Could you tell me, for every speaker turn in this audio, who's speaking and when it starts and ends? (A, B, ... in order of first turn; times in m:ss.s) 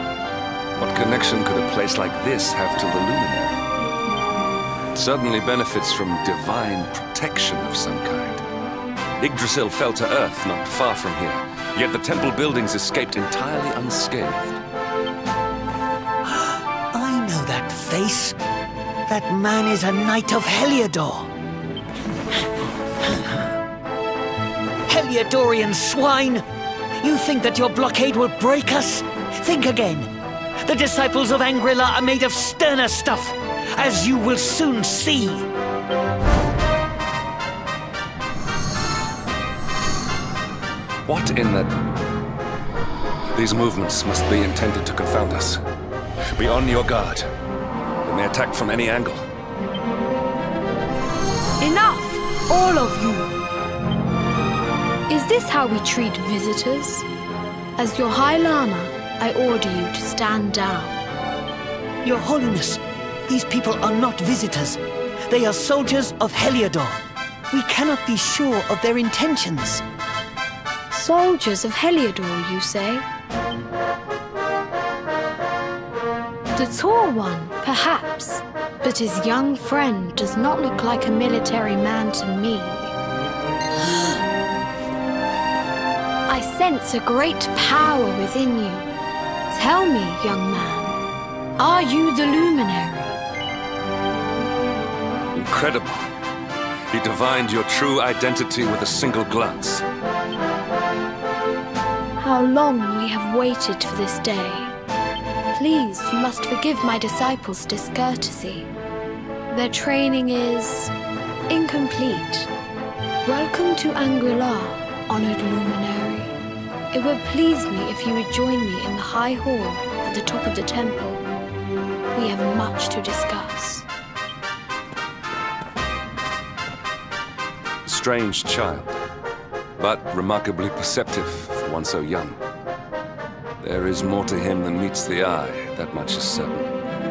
0:00.8-0:03.6 A
0:04.9-0:08.4 A
0:09.2-0:14.6 A
0:16.2-0:18.4 B
0:19.1-0:21.3 B
0:24.9-0:26.4 B
0:27.0-0:30.1 B
0:30.6-0:35.4 B
0:41.0-0:42.0 A
0:43.3-0:45.6 A
0:46.4-0:47.3 A
0:48.0-0:49.2 A
0:51.6-0:53.3 C
0:55.1-0:57.0 C
0:57.8-1:01.0 C
1:02.0-1:07.0 B
1:07.5-1:09.8 B
1:10.9-1:13.1 C
1:16.6-1:22.9 C
1:26.3-1:28.9 C
1:29.5-1:31.0 C
1:31.6-1:33.2 C
1:35.3-1:36.1 A
1:36.9-1:39.8 A
1:42.2-1:44.7 C
1:45.5-1:48.7 C
1:49.5-1:50.9 C
1:51.5-1:52.5 C
1:53.2-1:56.3 C
1:56.9-2:01.2 C
2:02.1-2:03.9 C
2:07.8-2:09.0 A
2:09.8-2:12.4 A
2:13.6-2:16.7 A